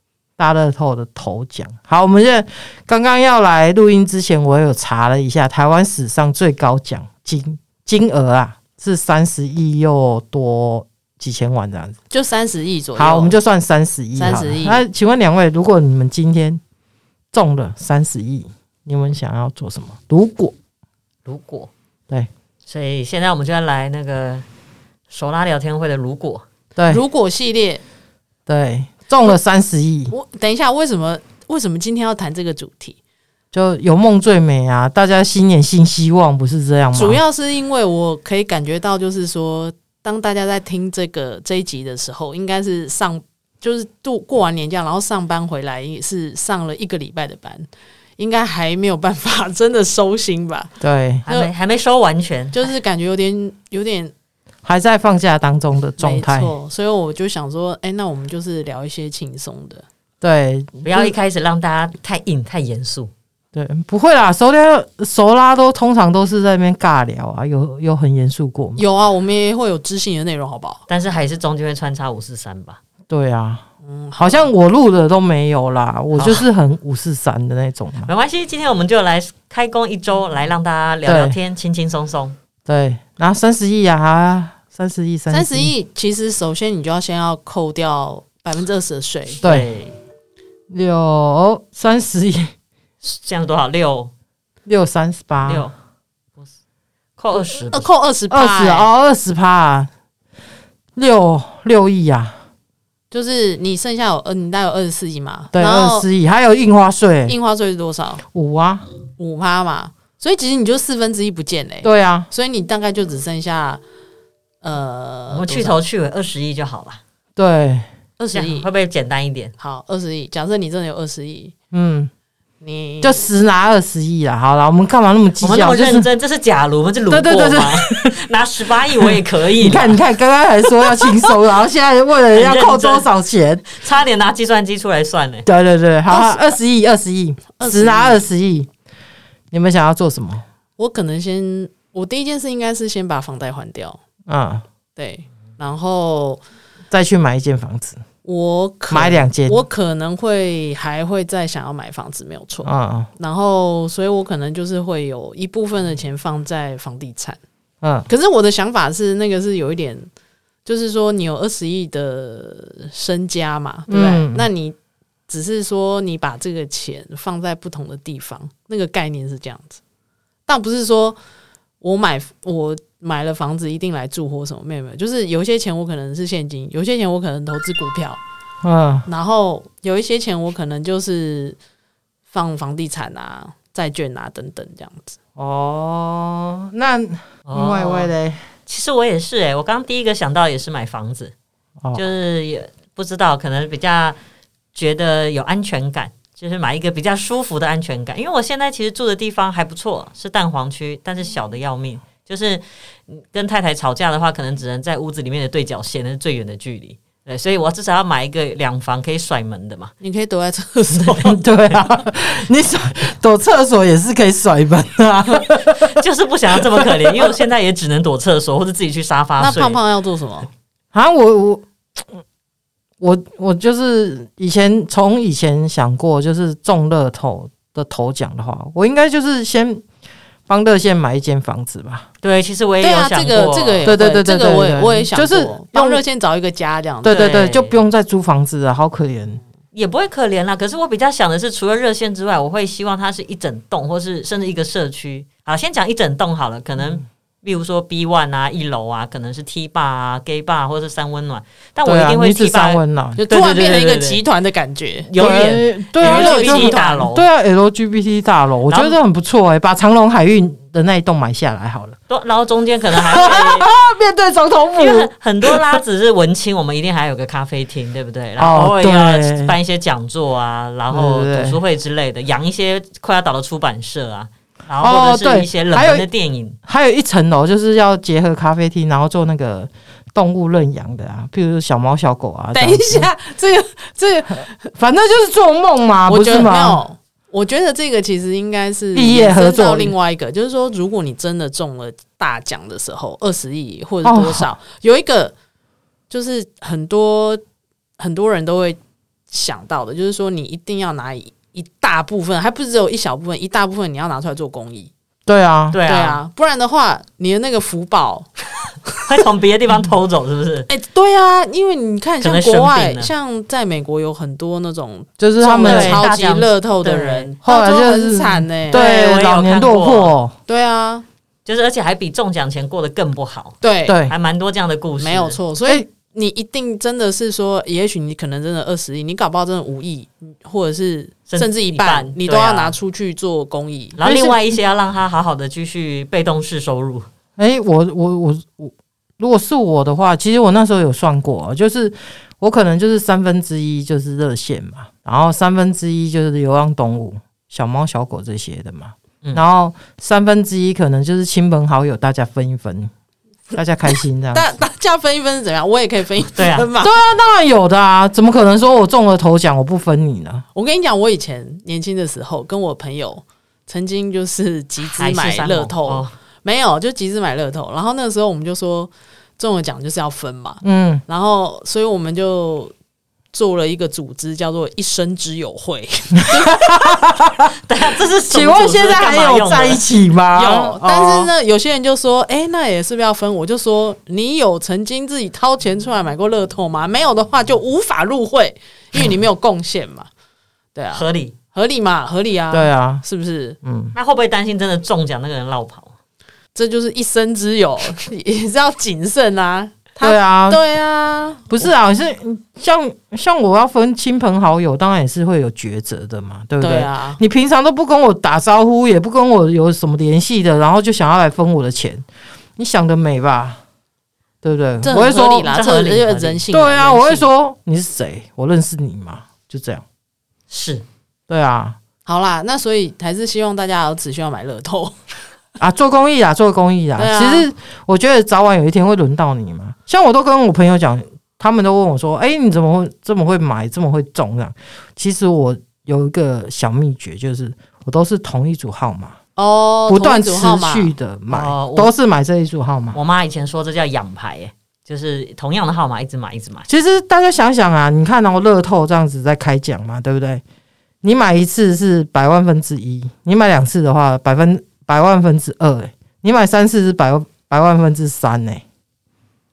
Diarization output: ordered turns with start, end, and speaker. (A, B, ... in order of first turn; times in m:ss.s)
0:00.4-0:12.0 A
0:12.1-0:13.4 B
0:13.0-0:16.6 A
0:14.2-0:14.8 B
0:17.3-0:20.5 A
0:21.2-0:21.7 C
0:22.6-0:24.4 C
0:25.1-0:26.4 C
0:26.8-0:27.0 A
0:26.9-0:27.8 B
0:28.5-0:30.1 A
0:30.1-0:33.0 B
0:33.5-0:37.2 A
0:36.9-0:47.7 B
0:48.2-0:50.7 B
0:50.8-0:51.2 A
0:51.2-0:51.5 B
0:51.2-0:52.7 C
0:52.5-0:54.1 B
0:54.6-0:56.5 A
0:56.0-0:59.8 B
1:00.2-1:01.1 A
1:00.8-1:03.1 C
1:03.5-1:08.8 A
1:08.8-1:10.8 B
1:10.9-1:12.8 C
1:13.1-1:13.6 A
1:13.8-1:14.5 B
1:14.2-1:18.1 A
1:16.1-1:16.4 C
1:18.1-1:22.4 C
1:21.0-1:21.4 A
1:22.6-1:25.7 A
1:25.3-1:29.4 B
1:29.4-1:29.7 A
1:29.4-1:29.9 C
1:30.7-1:32.5 A
1:33.0-1:34.1 C
1:34.6-1:35.7 A
1:35.4-1:35.7 C
1:37.2-1:37.9 C
1:37.7-1:38.9 B
1:38.3-1:39.9 A
1:41.0-1:42.4 A
1:43.1-1:46.1 B
1:45.5-1:47.3 A
1:47.3-1:48.2 B
1:48.2-1:48.9 A
1:49.2-1:53.8 B
1:51.8-1:52.3 A
1:54.6-1:55.8 B
1:55.3-1:57.0 C
1:57.4-1:57.9 A
1:58.2-1:58.7 B
1:58.3-1:59.5 C
1:59.6-2:01.5 B
2:01.7-2:02.1 A
2:02.6-2:03.3 B
2:03.0-2:06.1 A
2:05.4-2:10.0 C
2:07.1-2:08.2 A
2:08.9-2:13.7 A
2:12.3-2:13.1 C
2:13.7-2:15.5 C
2:15.4-2:18.7 A
2:16.1-2:16.5 B
2:17.6-2:18.2 B
2:19.5-2:20.4 A
2:20.8-2:24.0 B
2:24.3-2:24.6 A
2:25.0-2:26.4 B
2:26.9-2:28.0 A
2:28.2-2:37.4 B
2:28.9-2:29.6 A
2:32.6-2:33.1 A
2:37.8-2:38.1 A
2:38.1-2:40.1 B
2:40.6-2:44.8 B
2:43.9-2:44.5 A
2:45.3-2:49.8 B
2:50.5-2:51.2 B
2:51.8-2:58.2 B
2:58.6-2:59.1 A
2:59.0-3:01.6 B
3:02.3-3:05.2 B
3:05.4-3:08.4 A
3:07.5-3:08.1 C
3:08.7-3:11.3 C
3:11.9-3:14.2 C
3:14.7-3:29.9 C
3:30.0-3:31.4 B
3:30.9-3:31.2 C
3:31.3-3:36.0 A
3:35.8-3:39.8 C
3:36.5-3:37.3 A
3:39.4-3:40.5 B
3:40.9-3:42.2 A
3:43.0-3:49.8 A
3:50.5-3:52.1 A
3:52.2-3:53.9 C
3:52.8-3:57.2 B
3:53.8-3:56.0 A
3:57.0-3:59.4 A
3:57.1-3:57.8 C
3:59.7-4:14.2 C
4:11.8-4:13.2 A
4:13.2-4:15.1 B
4:15.1-4:17.2 C
4:15.2-4:22.0 A
4:16.0-4:17.0 B
4:18.7-4:19.0 C
4:22.1-4:23.7 C
4:22.9-4:25.8 A
4:24.8-4:36.6 C
4:28.4-4:29.5 A
4:30.9-4:31.6 A
4:34.8-4:36.1 A
4:36.6-4:43.1 A
4:42.5-4:44.5 B
4:44.7-4:46.8 A
4:46.1-4:55.3 B
4:48.9-4:49.9 A
4:54.0-4:54.5 A
4:56.1-4:57.4 B
4:58.0-5:04.9 B
5:05.2-5:05.8 A
5:05.7-5:06.2 C
5:05.8-5:08.3 B
5:09.0-5:10.7 C
5:10.7-5:18.8 B
5:12.2-5:13.1 C
5:15.2-5:16.0 A
5:15.6-5:17.4 C
5:17.4-5:20.4 A
5:18.7-5:20.1 C
5:20.5-5:21.0 B
5:21.4-5:25.4 C
5:23.6-5:24.0 B
5:23.9-5:24.1 A
5:25.0-5:34.0 B
5:31.3-5:32.7 C
5:34.0-5:37.1 C
5:34.0-5:34.4 A
5:37.4-5:52.9 A
5:53.5-5:54.5 A
5:54.3-5:57.0 B
5:56.3-5:56.7 C
5:56.8-6:00.4 A
6:00.5-6:12.7 B
6:05.0-6:06.1 C
6:10.6-6:11.0 A
6:13.3-6:17.0 B
6:16.7-6:17.5 A
6:17.6-6:19.8 C
6:18.3-6:21.3 A
6:20.3-6:30.1 B
6:30.7-6:33.6 B
6:30.9-6:31.3 C
6:32.5-6:33.0 A
6:33.6-6:33.9 A
6:33.9-6:35.9 C
6:36.5-6:41.7 B
6:40.0-6:40.6 A
6:41.5-6:52.0 A
6:46.6-6:47.2 B
6:52.6-6:53.6 A
6:54.4-6:55.5 A
6:54.8-6:57.3 B
6:55.5-6:56.4 C
6:56.5-6:59.8 A
7:00.5-7:00.8 C
7:01.3-7:01.8 A
7:02.0-7:05.0 B
7:05.6-7:19.2 A
7:07.0-7:07.5 B
7:19.4-7:20.9 B
7:19.9-7:23.0 A
7:21.3-7:21.9 C
7:22.9-7:26.7 C
7:26.7-7:30.4 A
7:31.0-7:38.6 A